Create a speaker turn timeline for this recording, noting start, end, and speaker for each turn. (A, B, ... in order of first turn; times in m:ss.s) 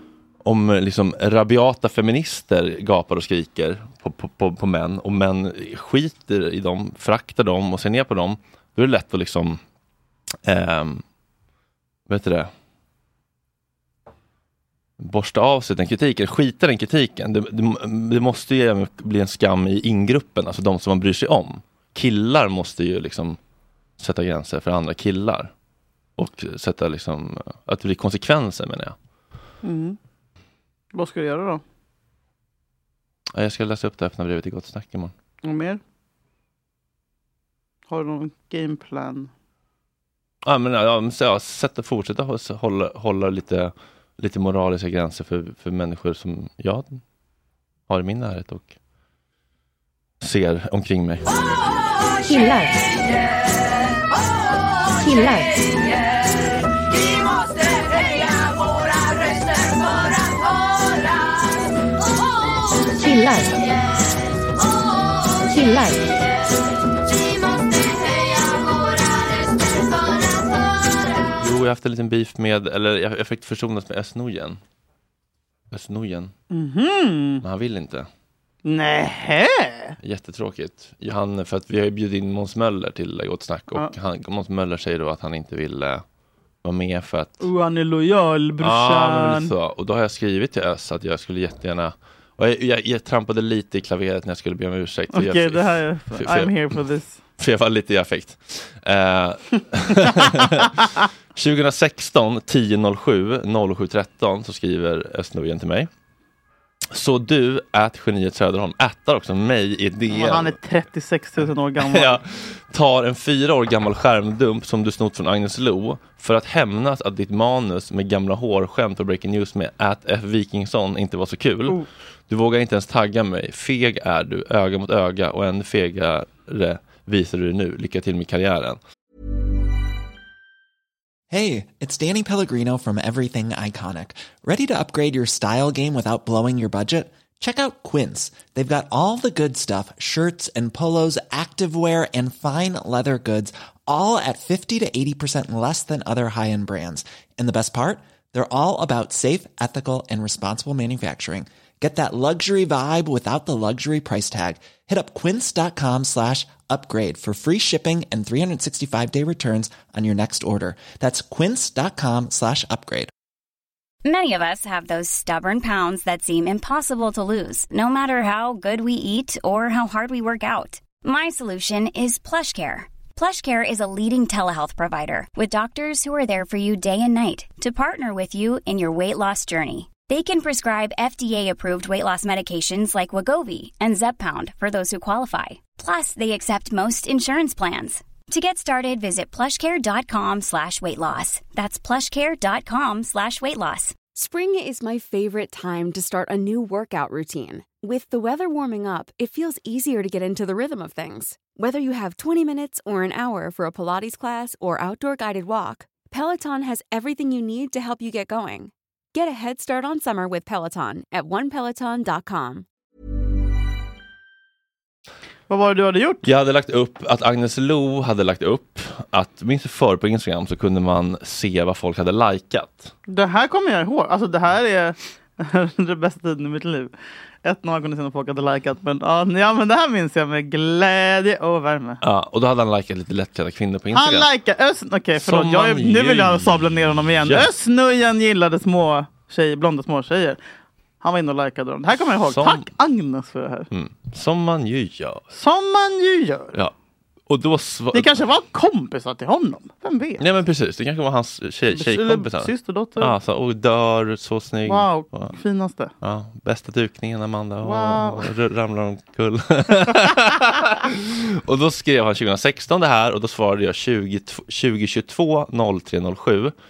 0:00.4-0:09.6 A
0:10.4-0:11.0 A
0:12.1-0:12.5 A
0:15.0-0:23.4 A
0:24.0-0:25.5 A
0:26.2-0:29.0 A
0:29.6-0:30.0 B
0:30.9-0:31.6 B
0:33.3-0:35.1 A
0:35.4-0:35.8 B
0:37.9-0:39.3 B
0:40.4-0:47.0 A
0:47.9-0:48.8 A
0:50.2-0:51.2 A
0:52.2-0:52.8 C
0:55.0-0:55.5 C
1:03.0-1:03.5 C
1:05.5-1:06.0 C
1:11.4-1:14.6 A
1:15.7-1:16.3 A
1:16.5-1:17.4 B
1:17.4-1:18.1 A
1:18.6-1:20.0 B
1:20.0-1:26.0 A
1:26.6-1:27.5 A
1:27.4-1:29.5 B
1:28.6-1:36.8 A
1:35.1-1:37.2 B
1:37.4-1:45.9 A
1:46.9-1:50.6 A
1:50.1-1:52.2 B
1:51.8-2:08.8 A
2:11.3-2:43.1 D
2:44.0-3:14.0 E
3:14.1-3:32.6 F
3:35.5-3:36.3 B
3:36.2-3:42.9 A
3:43.1-3:46.9 B
3:47.4-3:52.0 B
3:52.0-3:54.3 A
3:53.9-4:00.4 B
3:55.2-3:56.6 A
3:57.2-3:57.5 A
4:01.0-4:03.7 B
4:02.3-4:02.7 A
4:03.7-4:05.2 A
4:05.3-4:06.6 B
4:07.3-4:08.2 A
4:07.9-4:10.2 B
4:10.2-4:15.3 A
4:11.7-4:13.1 B
4:14.6-4:15.9 B
4:16.0-4:26.5 A
4:17.6-4:18.3 B